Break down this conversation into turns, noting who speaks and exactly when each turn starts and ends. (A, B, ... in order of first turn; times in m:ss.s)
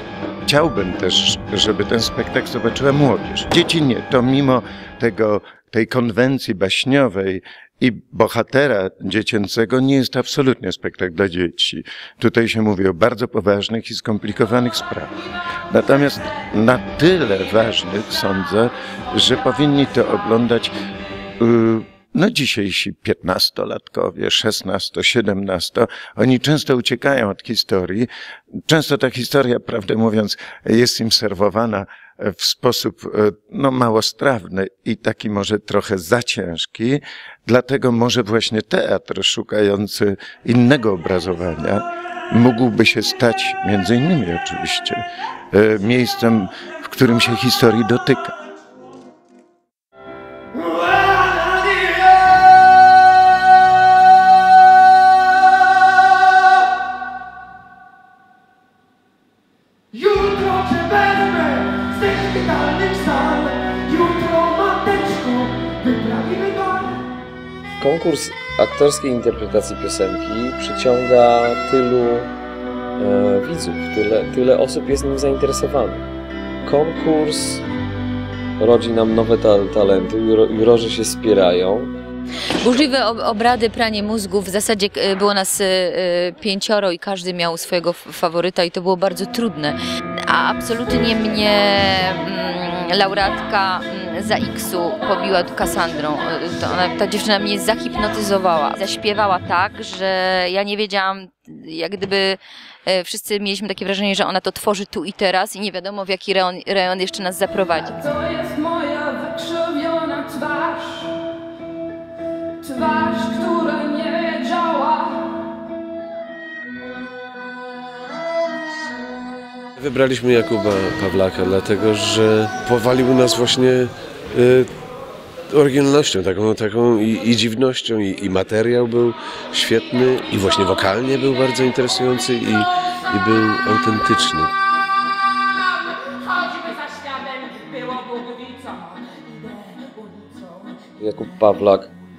0:00.5-0:15.1 A
0:15.7-0:20.7 A
0:21.4-0:28.1 A
0:28.7-0:48.4 A
1:02.4-1:03.4 B
1:05.2-1:05.4 B
1:07.8-1:12.3 C
1:13.0-1:16.0 C
1:16.6-1:17.6 C
1:18.6-1:21.9 C
1:22.6-1:29.8 D
1:30.3-1:48.0 D
1:48.0-1:51.1 B
1:52.6-1:55.1 B
1:59.8-2:04.7 E
2:05.5-2:14.5 E
2:16.6-2:18.9 B
2:21.0-2:21.9 C